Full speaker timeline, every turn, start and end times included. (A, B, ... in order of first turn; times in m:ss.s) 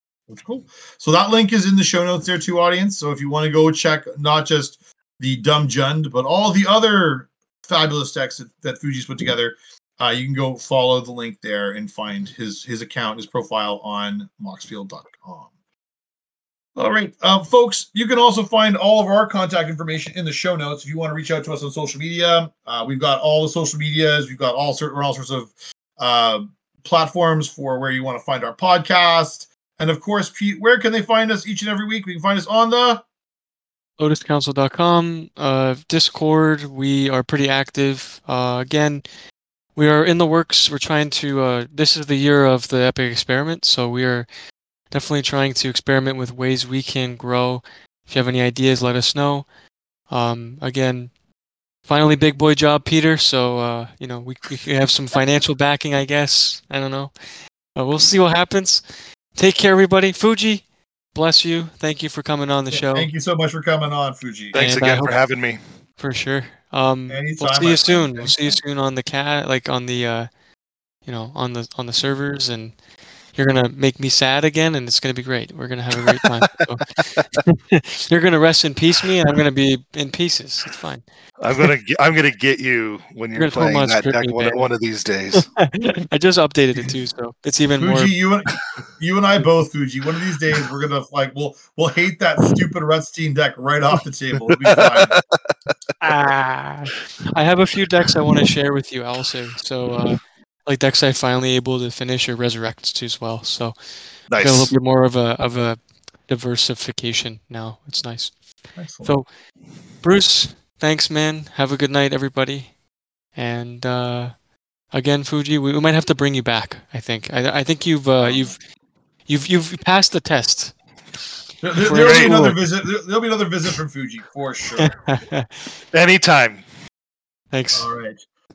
0:00.3-0:15.5 A
0:16.8-0:33.0 A
0:34.0-0:39.0 B
0:39.8-0:44.3 B
0:44.9-0:49.5 B
0:50.1-0:51.1 B
0:51.8-0:57.1 B
0:57.7-0:58.8 B
0:59.3-1:03.1 B
1:02.7-1:04.6 A
1:04.5-1:05.6 C
1:04.5-1:05.2 B
1:06.0-1:10.3 B
1:07.1-1:08.6 A
1:11.0-1:12.8 B
1:13.3-1:21.1 B
1:21.4-1:25.5 C
1:23.4-1:24.6 B
1:25.3-1:28.1 B
1:27.8-1:35.1 A
1:34.7-1:35.5 C
1:36.0-1:49.3 B
1:44.3-1:44.7 C
1:48.8-1:49.2 A
1:50.0-1:52.8 B
1:53.3-1:54.4 B
1:54.9-1:58.6 B
1:58.2-1:58.6 A
1:59.3-2:00.8 B
2:01.6-2:05.0 A
2:01.8-2:02.6 B
2:01.8-2:02.4 C
2:04.8-2:05.7 B
2:05.9-2:06.6 C
2:07.5-2:07.9 B
2:07.7-2:08.2 A